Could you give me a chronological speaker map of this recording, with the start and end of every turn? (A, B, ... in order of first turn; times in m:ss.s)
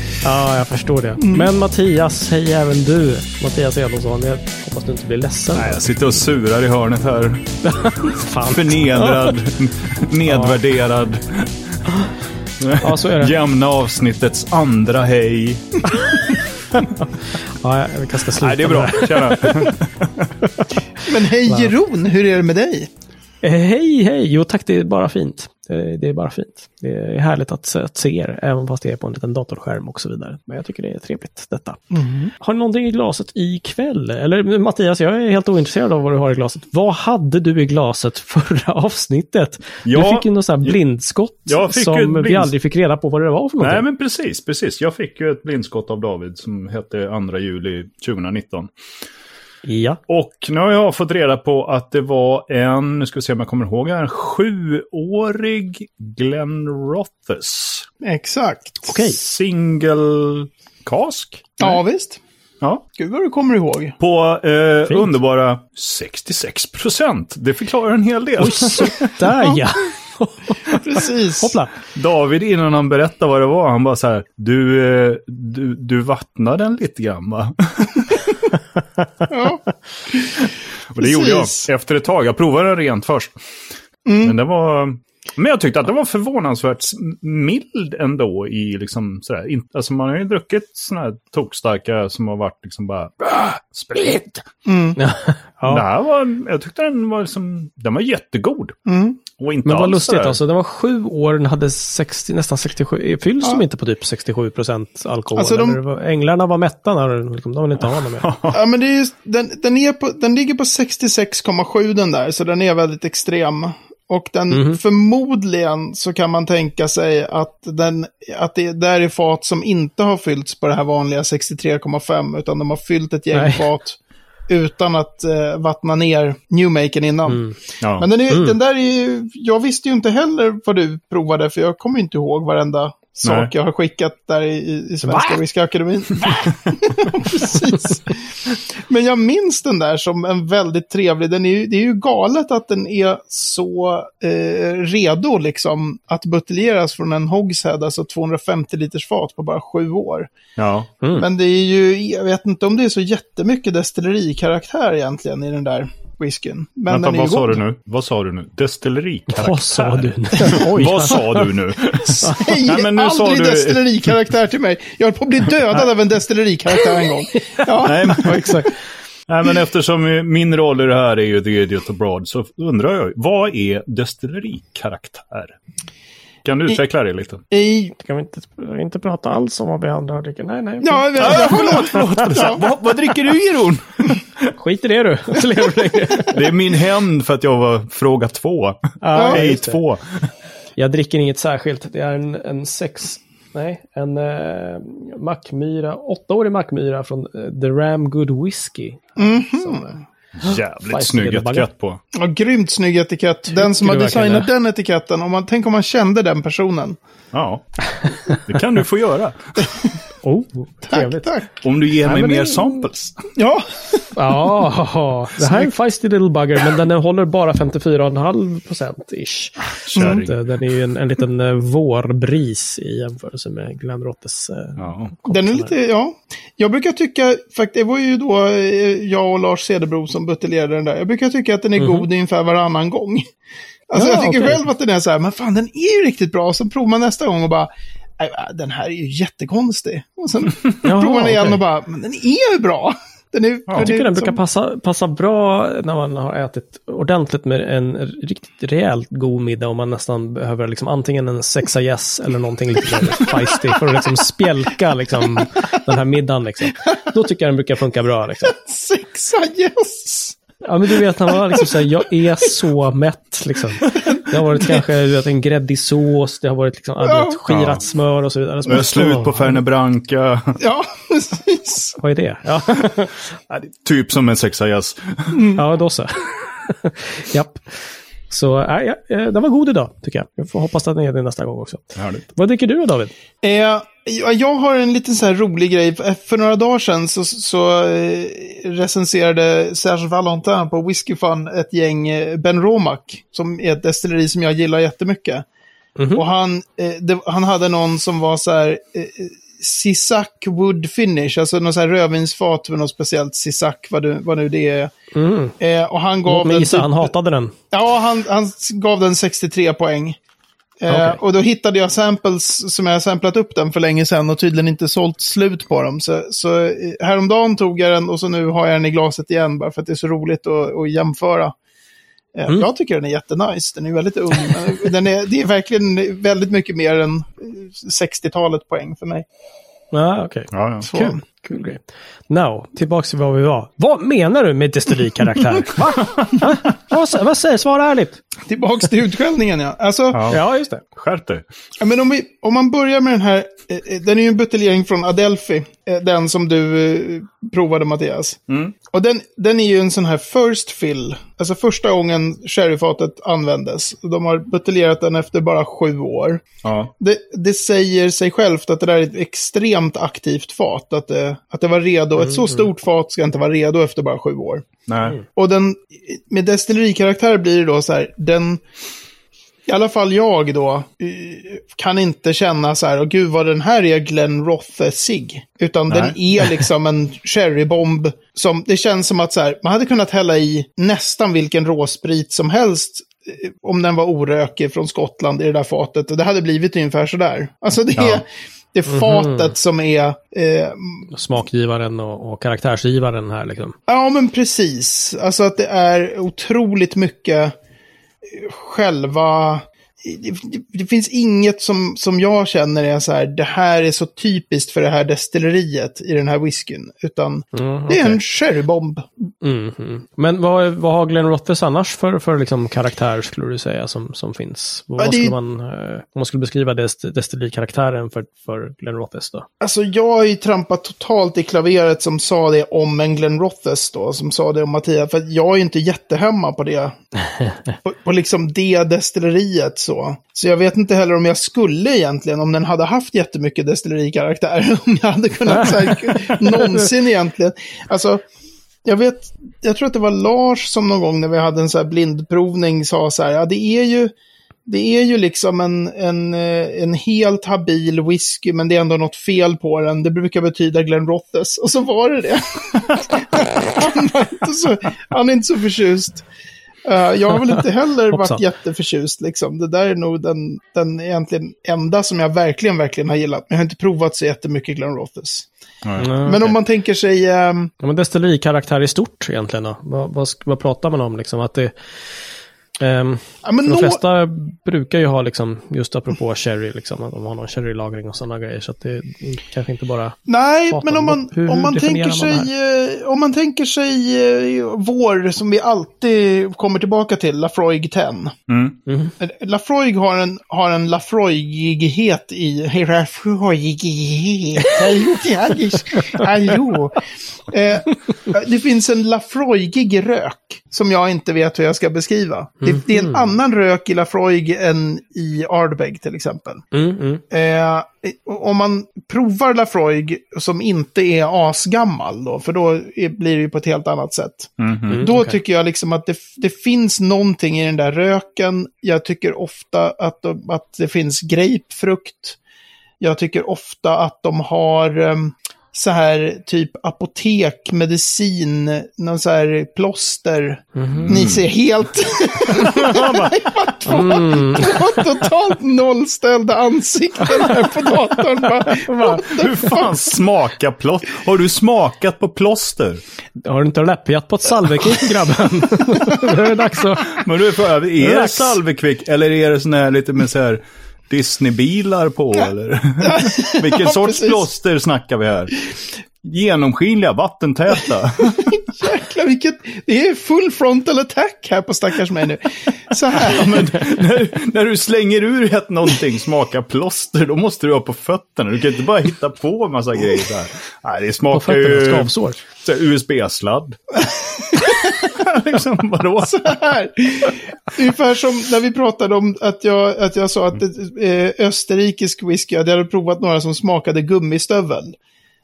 0:00.2-0:05.8 A
0:01.2-0:01.5 B
0:05.5-0:07.6 C
0:07.6-0:09.3 A
0:08.5-0:11.8 C
0:10.2-0:10.6 A
0:12.6-0:16.4 C
0:12.8-0:13.3 A
0:16.8-0:19.7 A
0:18.4-0:20.3 C
0:20.4-0:20.8 A
0:21.0-0:22.9 B
0:21.4-0:21.7 A
0:23.4-0:43.8 A
0:31.9-0:32.3 B
0:39.8-0:40.8 C
0:41.5-0:42.5 C
0:43.6-0:48.7 C
0:49.6-0:50.0 A
0:50.1-0:57.9 C
0:58.0-0:58.9 B
0:58.9-0:59.2 A
0:59.0-1:01.6 C
1:01.6-1:02.2 B
1:02.9-1:04.0 B
1:04.0-1:09.1 C
1:08.4-1:11.7 A
1:10.7-1:11.6 B
1:11.9-1:18.4 C
1:19.3-1:20.4 B
1:20.5-1:23.3 C
1:21.0-1:21.7 B
1:24.0-1:24.4 B
1:24.2-1:34.4 C
1:34.6-1:35.0 B
1:35.0-1:35.8 A
1:35.7-1:38.8 C
1:38.8-1:39.2 B
1:39.4-1:40.4 C
1:39.6-1:48.3 A
1:45.3-1:45.8 B
1:48.2-1:48.6 C
1:48.5-2:30.3 B
1:54.5-1:54.8 A
2:03.3-2:03.6 A
2:07.3-2:07.6 A
2:07.8-2:08.1 C
2:08.3-2:08.5 A
2:13.2-2:13.5 C
2:15.1-2:15.4 A
2:30.6-2:30.9 C
2:31.1-2:37.6 B
2:36.9-2:44.2 C
2:39.3-2:41.5 A
2:42.1-2:48.6 B
2:42.2-2:42.5 A
2:47.3-2:47.6 A
2:47.8-2:48.6 C
2:48.2-2:48.8 A
2:49.3-2:55.6 C
2:56.4-2:57.4 C
2:57.5-2:57.9 B
2:58.0-3:02.5 A
3:00.8-3:02.6 B
3:01.2-3:04.5 C
3:04.6-3:06.4 A
3:06.3-3:10.3 C
3:09.0-3:09.8 A
3:09.1-3:09.4 B
3:10.8-3:21.7 A
3:19.2-3:20.0 B
3:20.4-3:22.0 C
3:22.1-3:27.0 B
3:23.5-3:24.5 A
3:27.3-3:29.9 C
3:28.0-3:28.4 A
3:30.2-3:31.4 A
3:30.9-3:31.6 B
3:31.6-3:33.3 C
3:32.0-3:32.9 A
3:33.3-3:34.1 B
3:34.1-3:45.7 A
3:35.4-3:35.7 B
3:39.8-3:40.4 C
3:40.0-3:40.2 B
3:44.8-3:45.1 C
3:45.3-3:53.2 B
3:51.8-3:52.0 A
3:53.9-4:04.4 B
3:53.9-3:54.6 A
4:00.8-4:01.6 A
4:03.8-4:18.5 A
4:12.9-4:13.6 B
4:18.4-4:20.4 B
4:20.6-4:29.6 A
4:20.9-4:21.8 B
4:23.9-4:24.8 B
4:27.0-4:27.4 B
4:27.5-4:27.8 C
4:28.6-4:30.6 C
4:30.6-4:32.0 B
4:32.0-4:33.2 A
4:33.5-4:35.5 C
4:35.3-4:35.6 B
4:35.5-4:43.1 A
4:42.0-4:42.2 C
4:43.4-4:55.4 B
4:56.0-4:56.2 A
4:56.1-5:04.9 B
5:05.1-5:05.6 A
5:05.6-5:07.1 B
5:06.3-5:07.5 A
5:07.7-5:10.2 B
5:10.8-5:21.5 B
5:10.9-5:11.2 A
5:22.3-5:29.3 B
5:29.9-5:38.2 A
5:30.5-5:30.9 C
5:30.8-5:31.2 B
5:36.0-5:36.3 C
5:38.4-5:40.3 B
5:40.1-5:41.4 C
5:40.3-5:40.8 A
5:41.8-5:56.4 B
5:48.5-5:48.7 C
5:56.6-5:56.9 C
5:57.0-6:04.7 B
6:02.3-6:02.6 A
6:04.9-6:05.2 C
6:05.2-6:08.6 B
6:09.7-6:31.1 B
6:15.9-6:16.2 C
6:28.0-6:28.2 C
6:28.9-6:29.5 A
6:31.1-6:33.8 A
6:33.9-6:37.5 B
6:38.2-6:49.1 B
6:47.5-6:48.2 A
6:49.4-6:59.4 A
6:55.0-6:55.3 B
6:59.6-7:07.0 B
7:07.8-7:18.2 B
7:15.5-7:16.9 A
7:18.8-7:24.1 B
7:24.6-7:36.2 B
7:36.8-7:45.5 B
7:38.1-7:38.4 A
7:46.0-7:46.5 A
7:46.2-7:47.7 B
7:47.8-7:52.2 A
7:52.8-8:00.2 A
7:53.4-7:54.0 B
8:00.3-8:08.3 B
8:00.7-8:02.5 A
8:08.5-8:08.8 C
8:08.9-8:09.1 A
8:09.2-8:26.6 B
8:22.6-8:23.2 A
8:26.7-8:27.2 A
8:27.3-8:42.4 B
8:34.6-8:35.0 C
8:34.9-8:35.4 A
8:43.0-8:59.9 B
8:50.7-8:51.2 A
8:50.9-8:51.4 C
8:52.6-8:55.1 A
8:58.6-8:59.3 A
8:59.3-9:03.0 C
9:03.4-9:07.2 A
9:07.1-9:15.7 C
9:08.0-9:08.6 A
9:13.0-9:14.4 B
9:16.2-9:18.7 C
9:18.4-9:23.8 B
9:23.1-9:33.8 C
9:31.3-9:32.4 A
9:34.0-9:35.1 B
9:34.6-9:36.5 C
9:36.2-9:45.0 B